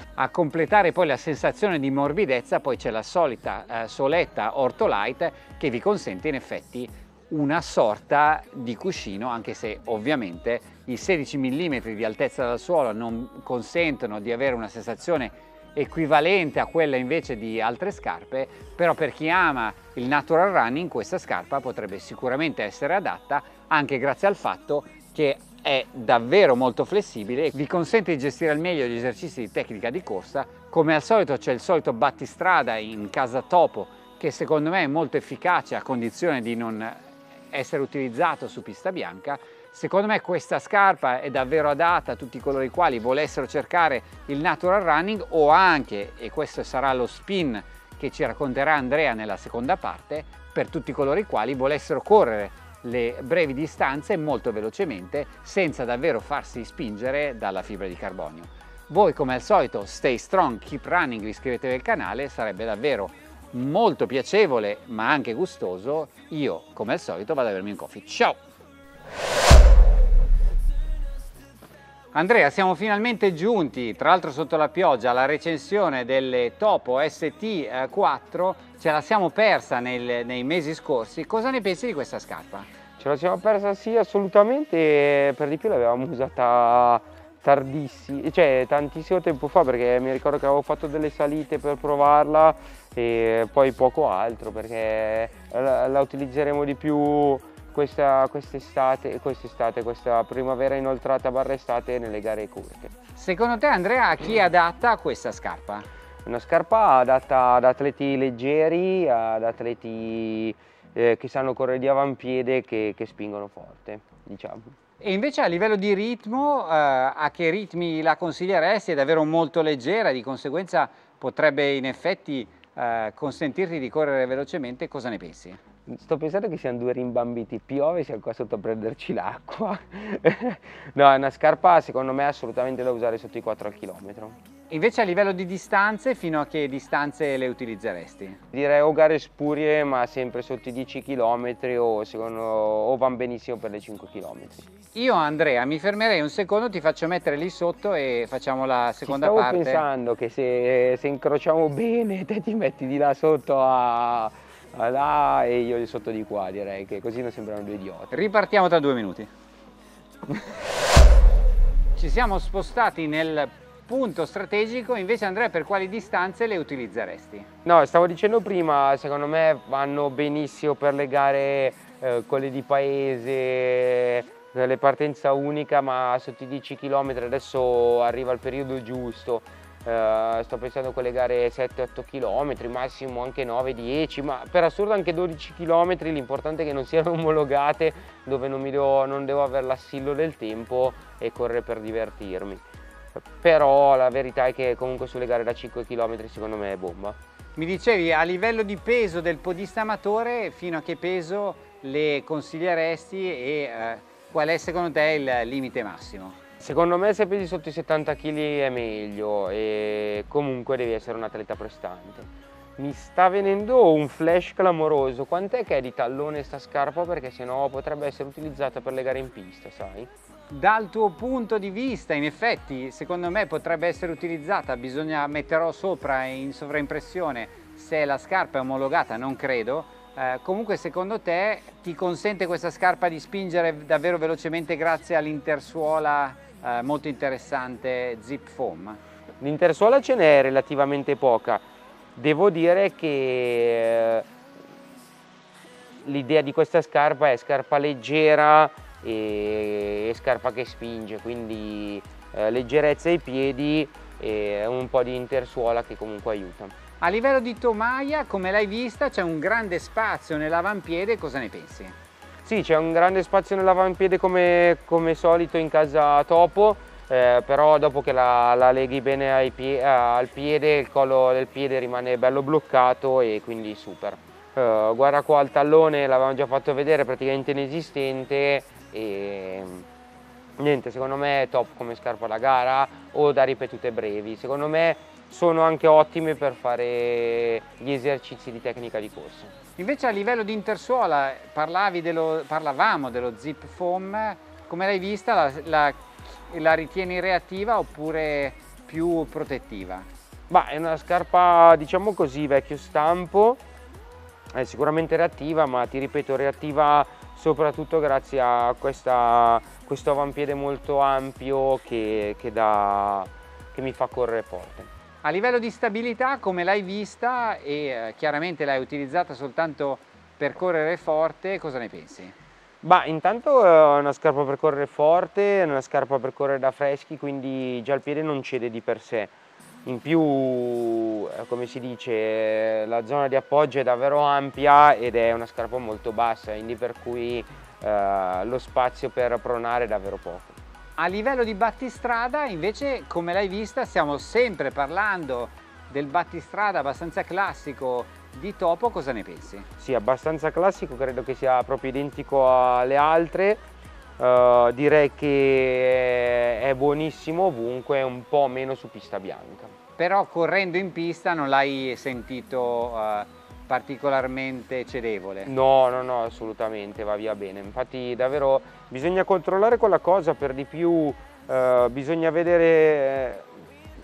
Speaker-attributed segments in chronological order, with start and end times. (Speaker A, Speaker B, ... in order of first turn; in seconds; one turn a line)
Speaker A: 0.2-68.4
Speaker A: 72.1-82.7
Speaker B: 83.0-102.9
Speaker A: 103.2-105.9
Speaker B: 106.2-114.7
Speaker A: 115.0-125.6
Speaker B: 125.9-134.4
Speaker A: 134.7-138.4
Speaker B: 138.5-144.7
Speaker A: 144.9-149.8
Speaker B: 149.1-158.2
Speaker A: 158.1-159.3
Speaker A: 162.0-167.5
Speaker B: 167.7-192.6
Speaker B: 193.2-197.2
Speaker A: 197.6-206.4
Speaker B: 206.6-220.1
Speaker A: 220.5-239.0
Speaker B: 239.4-241.6
Speaker B: 242.2-244.3
Speaker B: 246.0-256.7
Speaker A: 257.0-261.9
Speaker B: 262.4-279.9
Speaker B: 280.6-289.5
Speaker A: 289.8-300.1
Speaker B: 300.5-303.6
Speaker B: 304.5-314.9
Speaker A: 315.2-322.3
Speaker B: 322.8-329.3
Speaker B: 329.9-340.6
Speaker A: 341.0-349.7
Speaker B: 349.8-353.6
Speaker B: 354.2-359.7
Speaker A: 360.0-365.5
Speaker B: 365.4-373.5